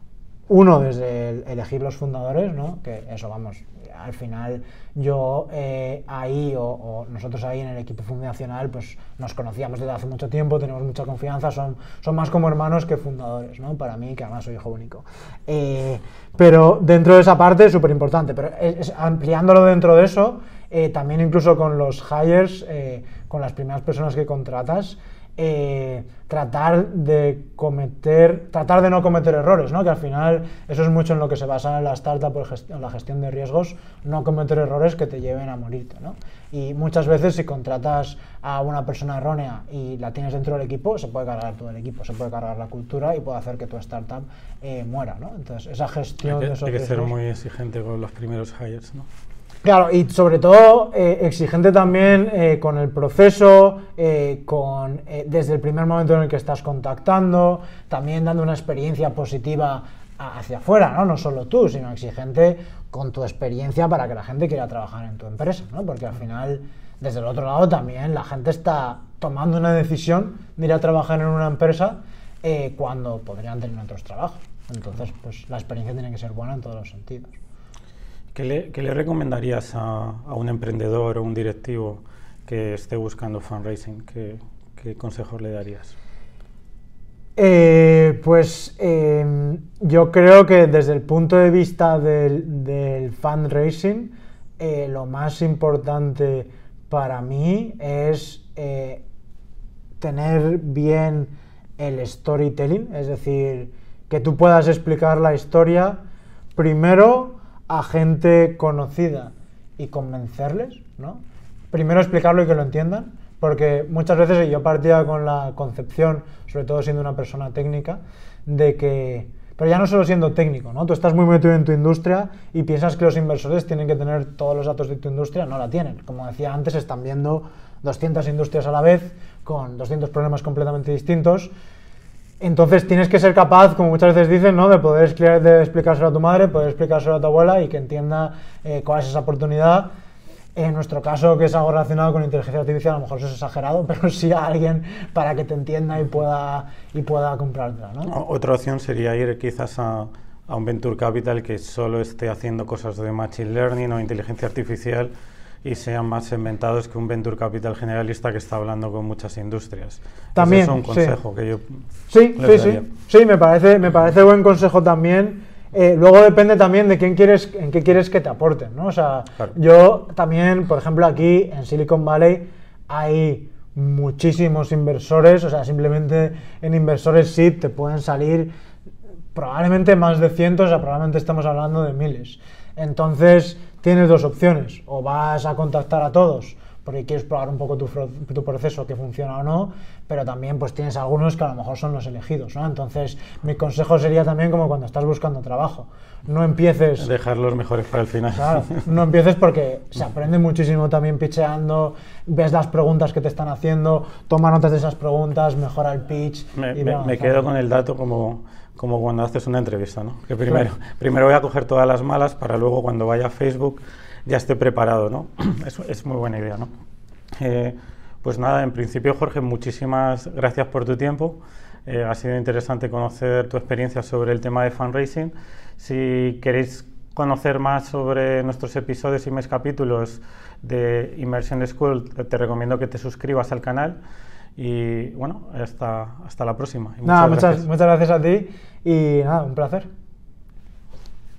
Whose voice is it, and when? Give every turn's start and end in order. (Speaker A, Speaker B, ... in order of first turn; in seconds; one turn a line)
Speaker A: 0.5-47.1
Speaker B: 46.2-49.1
Speaker A: 49.6-77.3
Speaker B: 78.3-85.9
Speaker A: 87.4-99.0
Speaker A: 100.0-106.0
Speaker A: 106.5-131.5
Speaker A: 132.4-139.9
Speaker A: 140.5-148.1
Speaker B: 148.0-155.1
Speaker B: 155.6-161.8
Speaker A: 160.3-161.2
Speaker A: 162.1-178.5
Speaker B: 162.4-162.9
Speaker A: 179.3-197.1
Speaker B: 197.0-198.8
Speaker A: 198.3-207.4
Speaker B: 206.6-216.7
Speaker B: 217.3-234.0
Speaker B: 234.6-237.6
Speaker A: 237.0-239.9